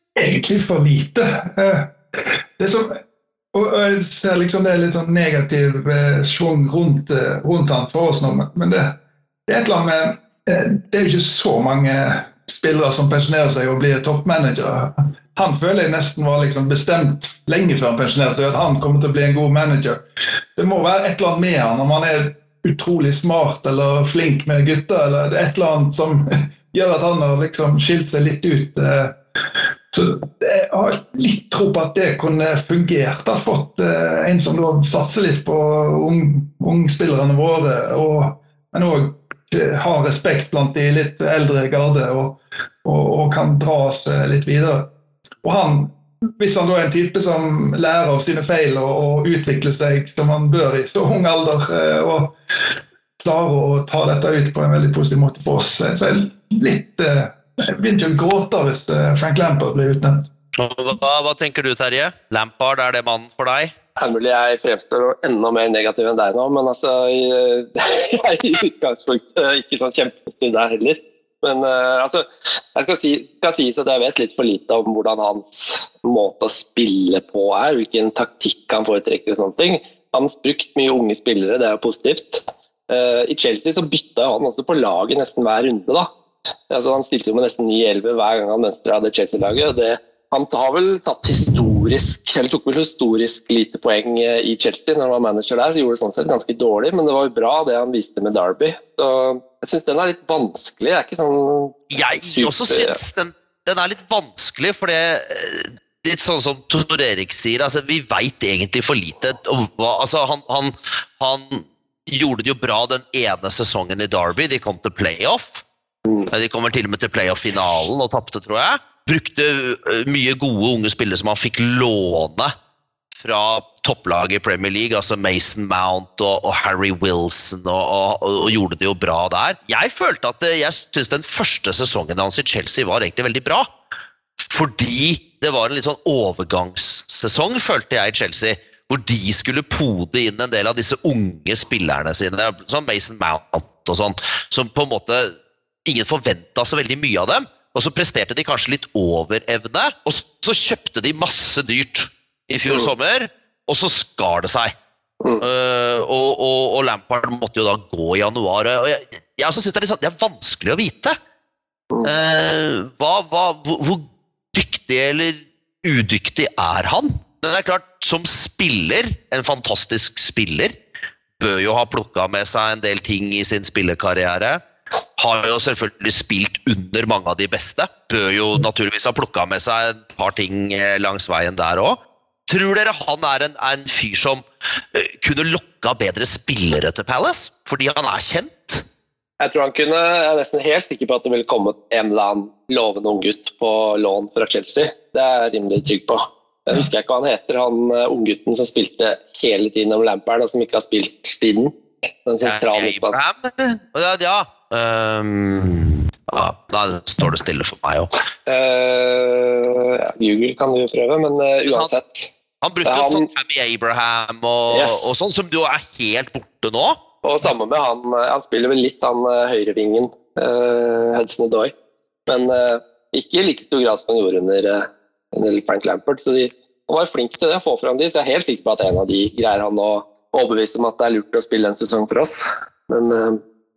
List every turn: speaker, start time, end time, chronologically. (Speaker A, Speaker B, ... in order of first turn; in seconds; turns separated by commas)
Speaker A: 0.2-3.0, Speaker A: 3.5-20.0, Speaker A: 20.6-29.2, Speaker A: 29.9-44.9, Speaker A: 45.4-52.4, Speaker A: 53.2-60.3, Speaker B: 60.5-63.7, Speaker C: 64.0-86.1, Speaker C: 86.7-103.0, Speaker B: 101.9-115.7, Speaker B: 116.3-122.5, Speaker B: 123.2-133.7, Speaker B: 134.4-145.3, Speaker B: 145.8-154.7, Speaker B: 155.4-161.2, Speaker B: 162.0-170.7, Speaker B: 171.4-174.6, Speaker B: 175.2-188.8, Speaker C: 189.4-201.7, Speaker C: 202.3-203.2, Speaker B: 202.4-208.1, Speaker C: 208.5-212.3, Speaker B: 211.7-211.9, Speaker B: 212.6-217.0, Speaker C: 212.8-213.3, Speaker C: 214.7-215.1, Speaker C: 217.2-221.7, Speaker C: 222.3-233.4